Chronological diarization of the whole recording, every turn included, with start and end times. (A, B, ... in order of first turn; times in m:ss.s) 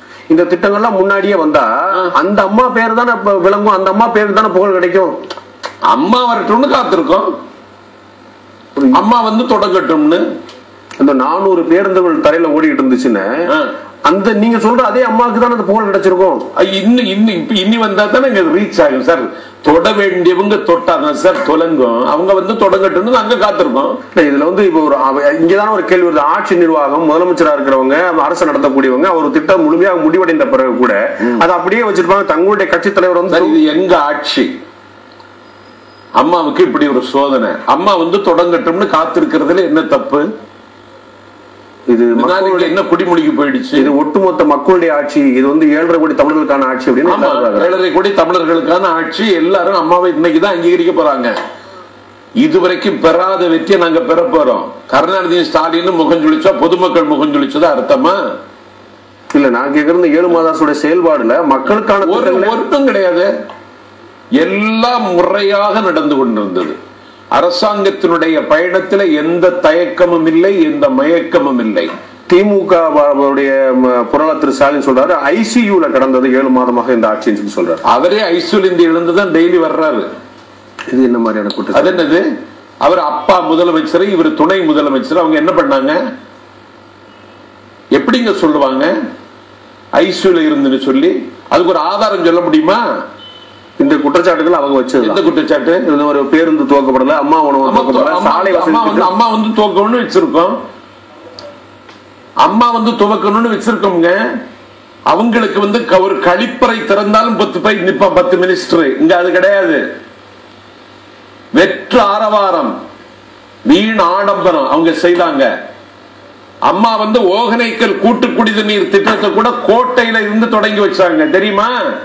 0:00.3-0:05.2 A
0:05.9-0:07.3 B
0:08.9-0:10.2 B
0:11.0-0:13.5 A
0:14.0-0:16.4 A
0:16.5-0:24.0 B
0:24.1-0:33.6 A
0:33.3-0:34.5 B
0:36.2-0:40.2 B
0:41.9-0:42.7 A
0:42.2-0:43.9 B
0:43.7-0:47.8 A
0:47.0-0:51.3 B
0:52.4-0:58.2 B
0:59.3-1:02.6 A
1:02.0-1:03.3 B
1:04.4-1:06.8 B
1:07.3-1:11.9 B
1:12.3-1:17.8 A
1:17.9-1:20.1 B
1:20.9-1:22.0 A
1:21.7-1:22.3 B
1:22.8-1:26.0 B
1:28.0-1:28.9 B
1:30.0-1:32.8 B
1:33.8-1:35.2 A
1:35.0-1:35.8 B
1:35.9-1:39.1 A
1:37.6-1:40.6 B
1:42.4-1:44.2 B
1:45.1-1:49.8 B
1:51.5-1:52.7 B
1:53.7-1:55.5 B
1:56.7-2:01.8 B